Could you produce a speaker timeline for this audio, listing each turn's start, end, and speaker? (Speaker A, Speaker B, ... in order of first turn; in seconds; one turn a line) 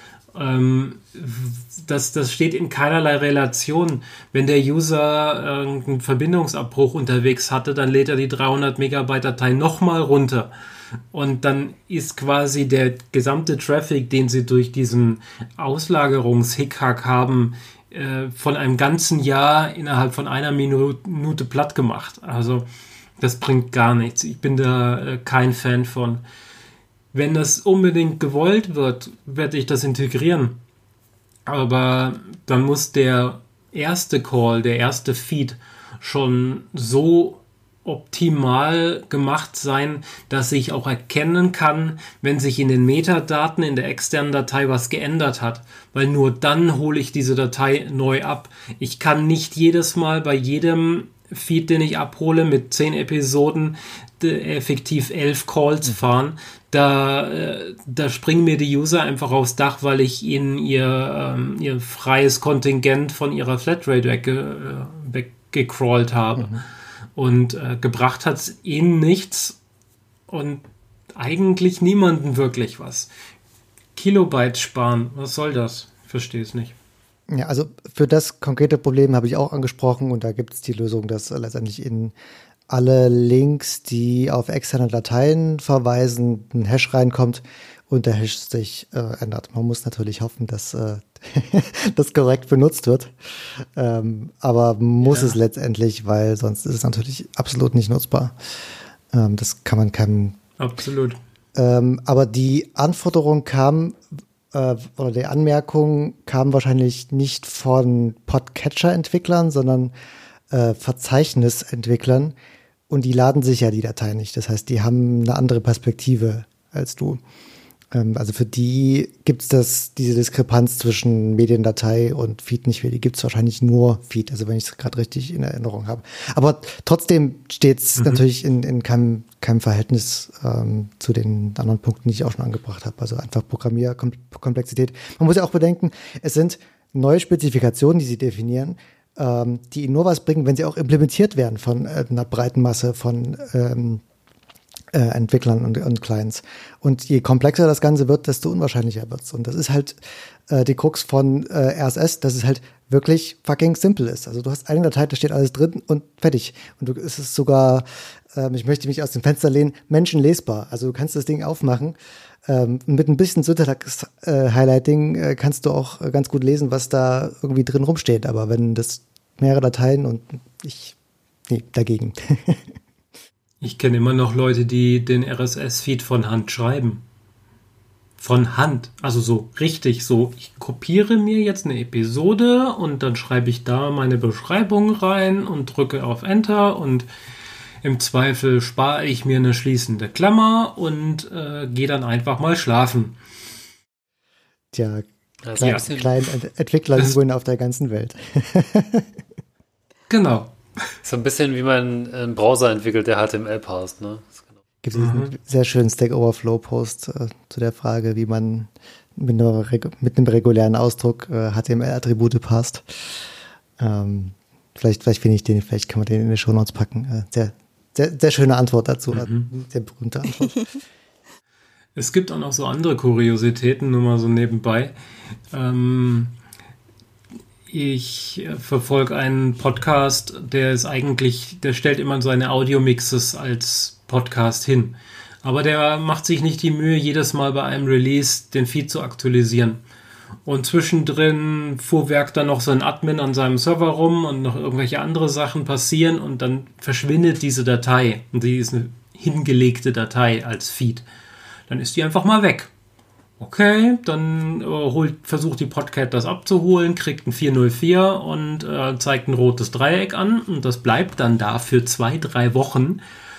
Speaker A: 0.3-10.5
Speaker A: 11.1-22.7
Speaker A: 23.2-26.2
Speaker A: 27.1-30.6
Speaker A: 31.4-66.6
Speaker A: 67.2-69.6
Speaker A: 70.3-70.6
Speaker A: 71.2-73.1
Speaker A: 73.9-76.7
Speaker B: 77.3-82.1
Speaker B: 82.7-98.3
Speaker A: 95.0-95.4
Speaker B: 99.1-100.4
Speaker A: 100.6-101.2
Speaker B: 101.5-104.0
Speaker B: 104.5-109.9
Speaker B: 110.5-112.3
Speaker B: 112.9-117.2
Speaker B: 117.9-144.0
Speaker A: 128.0-128.2
Speaker B: 144.9-150.0
Speaker B: 150.5-170.9
Speaker B: 171.5-172.7
Speaker A: 173.6-177.0
Speaker A: 178.2-187.1
Speaker A: 187.8-193.2
Speaker B: 194.7-199.1
Speaker C: 195.4-196.1
Speaker A: 195.6-195.9
Speaker A: 200.1-200.5
Speaker C: 201.0-204.4
Speaker B: 204.8-212.8
Speaker A: 204.9-205.3
Speaker B: 213.8-220.6
Speaker A: 219.1-219.5
Speaker A: 221.9-224.9
Speaker A: 225.5-226.3
Speaker A: 227.7-239.8
Speaker A: 240.4-251.0
Speaker A: 251.7-252.7
Speaker A: 253.4-263.0